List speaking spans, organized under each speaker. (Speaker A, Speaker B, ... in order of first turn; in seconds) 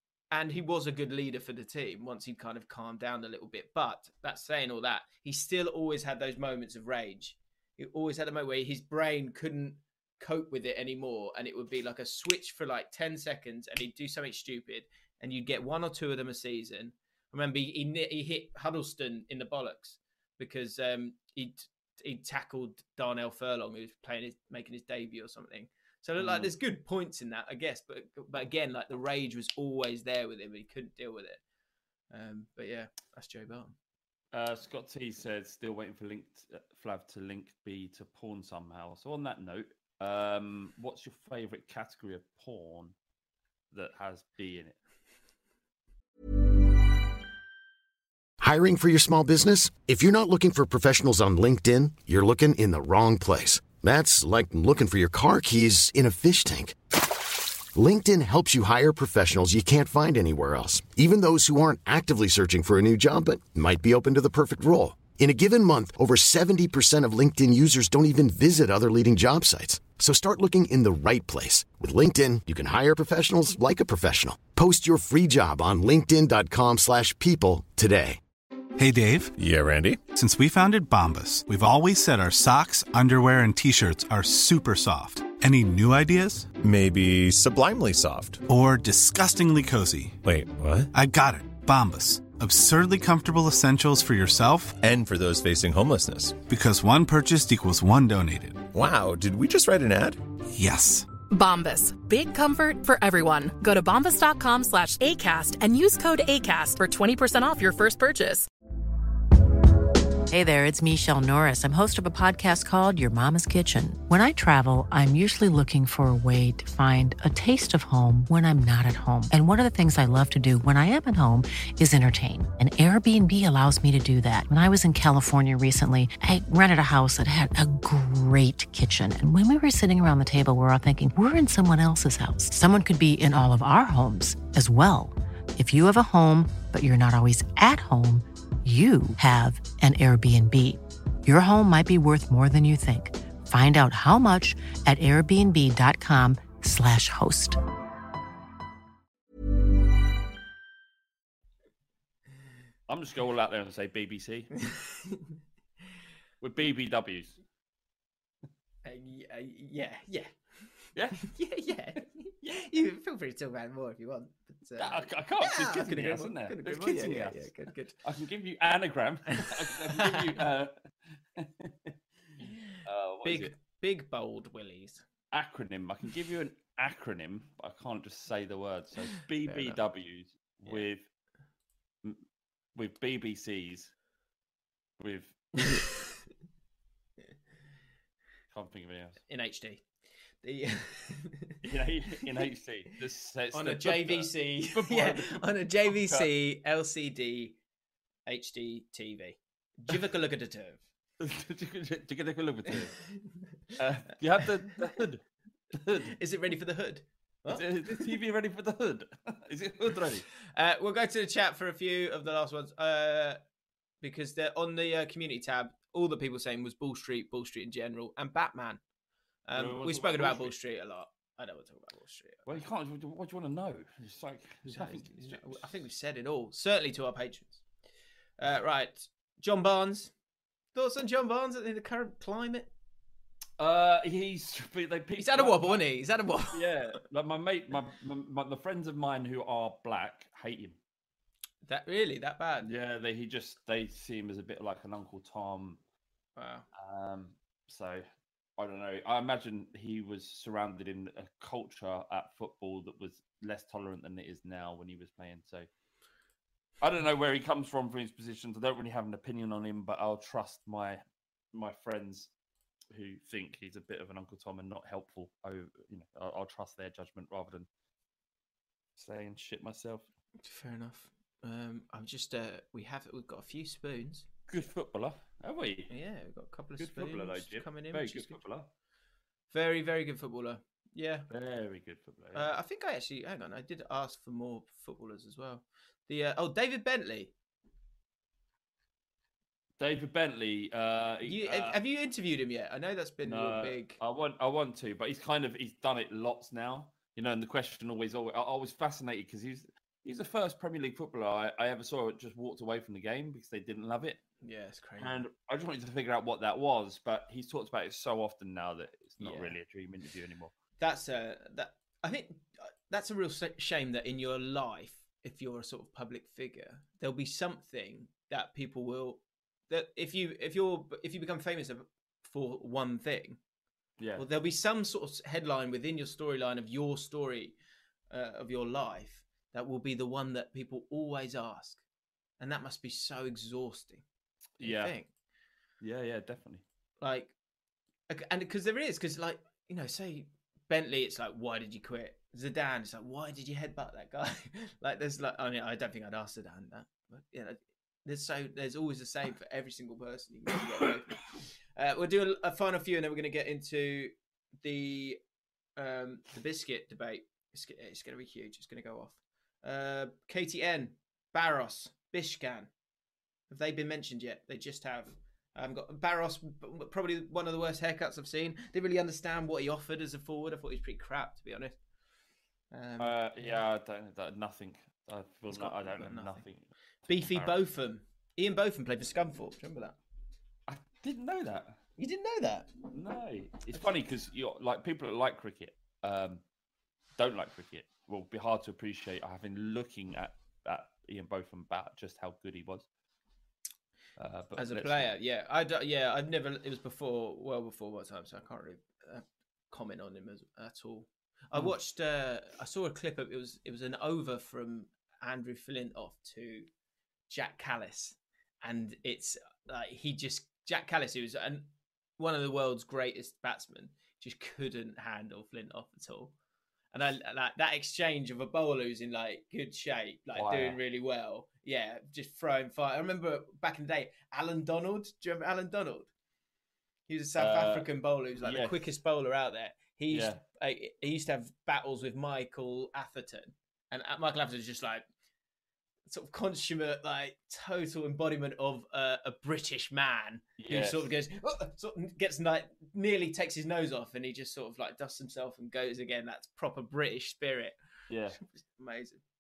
Speaker A: 0.3-31.4, 32.1-33.8, 154.7-155.3, 158.8-167.9, 169.3-170.3, 172.7-175.0, 179.5-179.8, 185.6-186.2, 189.3-189.8, 190.4-191.6, 193.5-197.6, 198.3-200.8, 206.0-208.1, 210.5-213.4, 214.0-218.8, 219.5-222.6, 224.7-227.6, 228.4-230.1, 230.8-232.7, 235.2-236.7, 241.7-242.7, 246.4-246.7, 270.4-274.3, 275.9-278.4, 279.5-281.3, 282.3-287.3, 291.2-294.0, 304.4-305.1, 309.2-309.6, 310.8-323.4, 324.2-327.6, 328.1-331.8, 332.4-334.0, 334.6-335.1, 337.0-337.3, 338.1-355.2, 355.8-362.7, 363.5-371.8, 372.7-373.6, 375.5-376.4, 377.1-380.0, 382.0-382.8, 394.6-406.7, 407.3-416.3, 416.9-426.1, 427.1-435.0, 436.1-447.8, 448.4-449.2
Speaker B: 26.2-26.5, 34.3-42.9, 43.7-44.8, 152.9-154.7, 156.4-157.4, 160.9-161.3, 164.8-171.9, 172.7-173.5, 175.3-181.1, 182.8-183.9, 185.0-185.9, 188.5-189.2, 191.6-196.3, 201.2-203.0, 203.8-205.2, 205.7-206.2, 207.5-210.3, 219.6-220.5, 222.5-225.7, 233.6-235.8, 236.5-240.8, 242.6-245.8, 246.7-248.0, 248.6-255.7, 256.8-261.0, 261.5-262.3, 262.9-267.7, 269.0-270.1, 274.5-275.9, 276.8-278.7, 281.3-282.5, 289.8-291.8, 293.3-304.2, 305.0-310.5, 324.0-324.3, 334.6-334.9, 335.8-336.6, 373.0-376.7, 377.2-377.6, 380.7-381.8, 382.9-386.4, 387.2-392.9, 394.2-395.1, 420.4-420.8, 427.4-428.8, 430.1-430.4, 440.6-441.1, 448.1-448.4
Speaker C: 48.4-78.2
Speaker D: 78.8-79.3, 80.1-86.5, 88.5-90.2, 90.9-94.8, 96.5-98.7, 100.5-101.1
Speaker E: 79.4-80.0, 86.5-88.4, 90.2-90.9, 94.8-96.4, 98.7-100.3
Speaker F: 101.3-108.5
Speaker G: 110.3-147.6